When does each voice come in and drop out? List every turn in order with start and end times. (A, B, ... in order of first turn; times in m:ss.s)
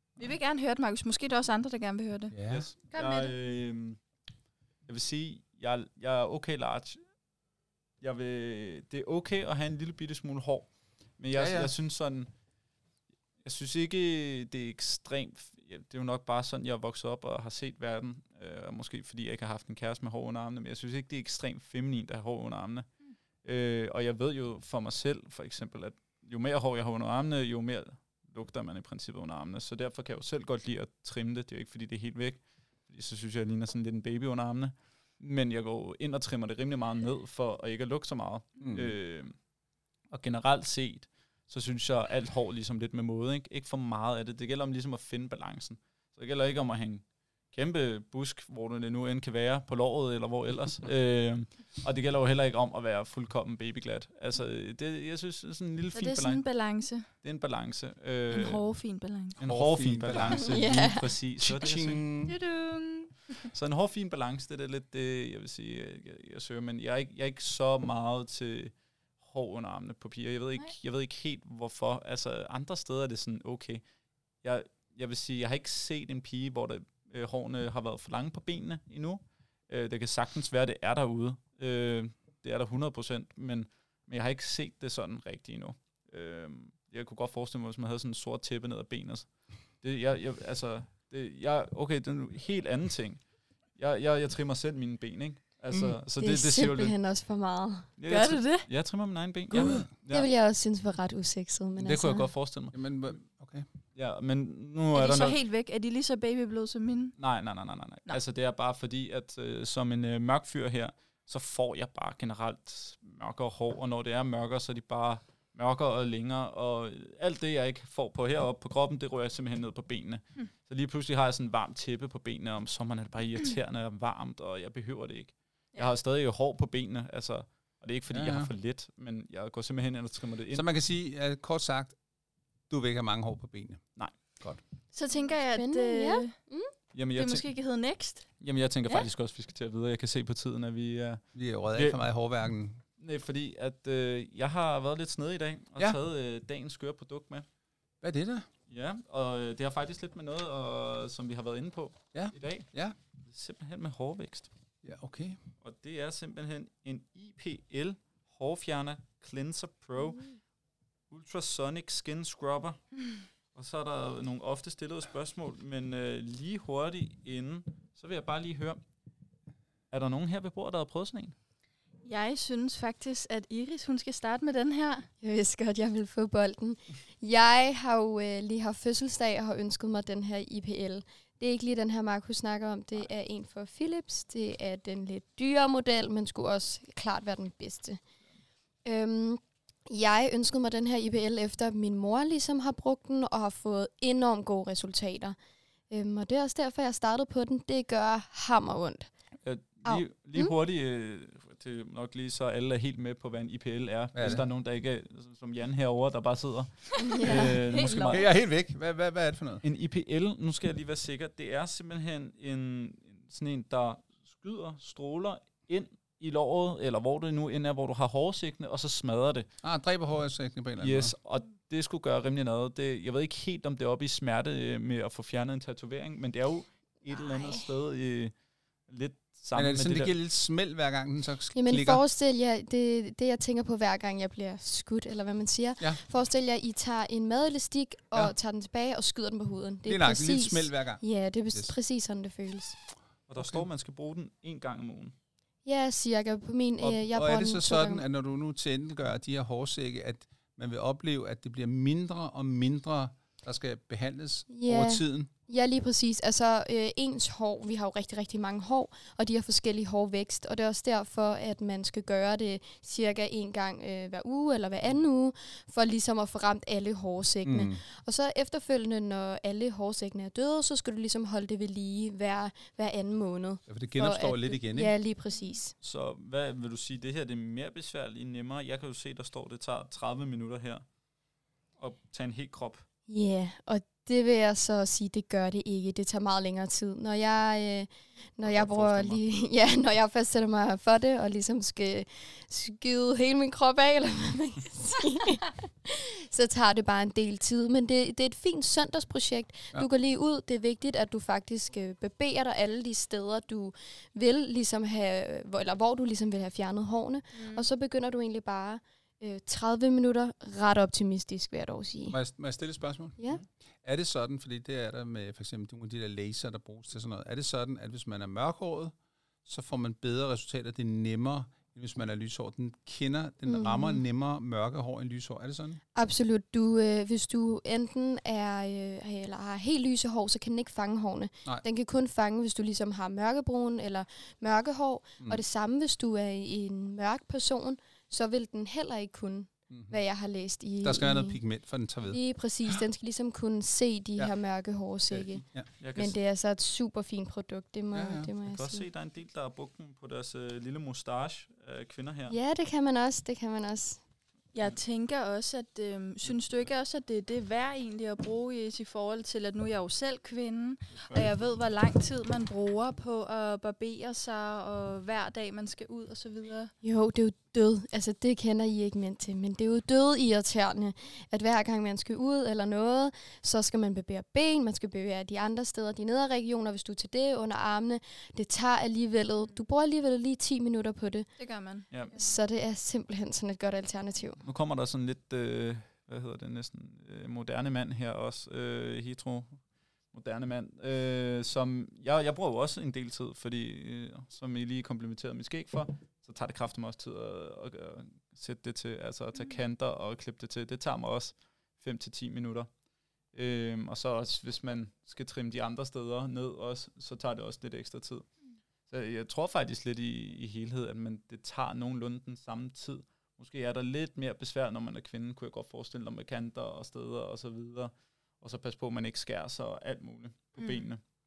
0:00.2-0:02.3 A
0:02.3-0:02.7 B
0:02.5-0:04.0 C
0:02.9-0:03.3 A
0:04.9-0:07.0 C
0:08.0-0:12.3 C
0:11.3-0:11.7 B
0:13.4-0:22.9 C
0:23.4-0:39.3 C
0:38.6-0:39.0 B
0:40.1-0:56.4 C
0:55.9-0:57.1 A
0:57.2-0:58.6 C
0:58.3-0:59.4 A
0:59.4-1:02.0 C
0:59.4-1:00.8 B
1:00.4-1:01.1 D
1:01.4-1:02.4 B
1:02.3-1:03.5 A
1:03.5-1:13.8 C
1:14.4-1:29.3 C
1:29.8-1:33.2 C
1:33.8-1:36.9 C
1:36.2-1:37.9 D
1:38.0-1:40.3 C
1:38.1-1:38.6 A
1:39.5-1:39.9 B
1:39.6-1:42.3 D
1:41.8-1:42.8 C
1:42.7-1:43.6 B
1:43.9-1:45.4 C
1:44.9-1:47.2 A
1:47.2-2:10.6 C
2:08.1-2:08.5 B
2:10.5-2:12.0 B
2:12.7-2:13.8 B
2:14.9-2:16.3 A
2:15.6-2:16.7 D
2:16.9-2:17.4 C
2:17.1-2:18.3 A
2:18.4-2:21.2 C
2:21.3-2:22.8 B
2:23.0-2:27.4 C
2:28.0-2:28.5 B
2:28.7-2:32.7 C
2:32.1-2:33.0 B
2:33.2-2:34.5 C
2:34.8-2:35.4 B
2:35.6-2:40.2 C
2:41.1-2:42.8 C
2:43.5-2:48.8 C
2:49.9-2:51.3 C
2:52.0-2:55.1 A
2:55.2-3:08.0 D
3:08.8-3:15.4 D
3:15.9-3:19.1 D
3:19.4-3:28.2 C
3:19.8-3:20.5 D
3:24.1-3:24.4 B
3:27.0-3:27.6 D
3:27.0-3:28.3 A
3:28.0-3:29.6 B
3:29.6-3:39.5 C
3:39.6-3:41.1 B
3:40.8-3:48.3 C
3:48.9-3:50.1 C
3:49.5-3:52.0 B
3:51.5-4:02.8 D
3:59.8-4:01.0 B
4:03.3-4:05.1 C
4:03.4-4:03.7 B
4:05.6-4:08.0 D
4:06.8-4:15.3 B
4:14.5-4:35.7 D
4:27.4-4:27.8 B
4:33.7-4:34.9 B
4:35.8-4:40.8 C
4:41.8-4:42.8 C
4:43.1-5:12.2 D
4:48.5-4:49.2 C
5:07.3-5:07.6 A
5:12.1-5:13.2 B
5:13.8-5:18.9 B
5:19.4-5:25.8 B
5:23.5-5:24.0 D
5:25.9-5:41.4 D
5:39.7-5:40.0 B
5:40.8-5:42.2 B
5:42.1-5:45.4 D
5:45.1-5:45.7 B
5:45.8-5:46.2 C
5:45.9-5:48.8 D
5:47.9-5:48.3 B
5:48.4-5:52.3 C
5:52.3-5:54.0 D
5:54.5-6:06.7 A
6:06.8-6:21.3 D
6:21.4-6:21.9 A
6:22.1-6:24.4 D
6:24.4-6:29.6 C
6:30.1-6:42.7 C
6:43.3-6:48.2 C
6:48.9-7:01.0 C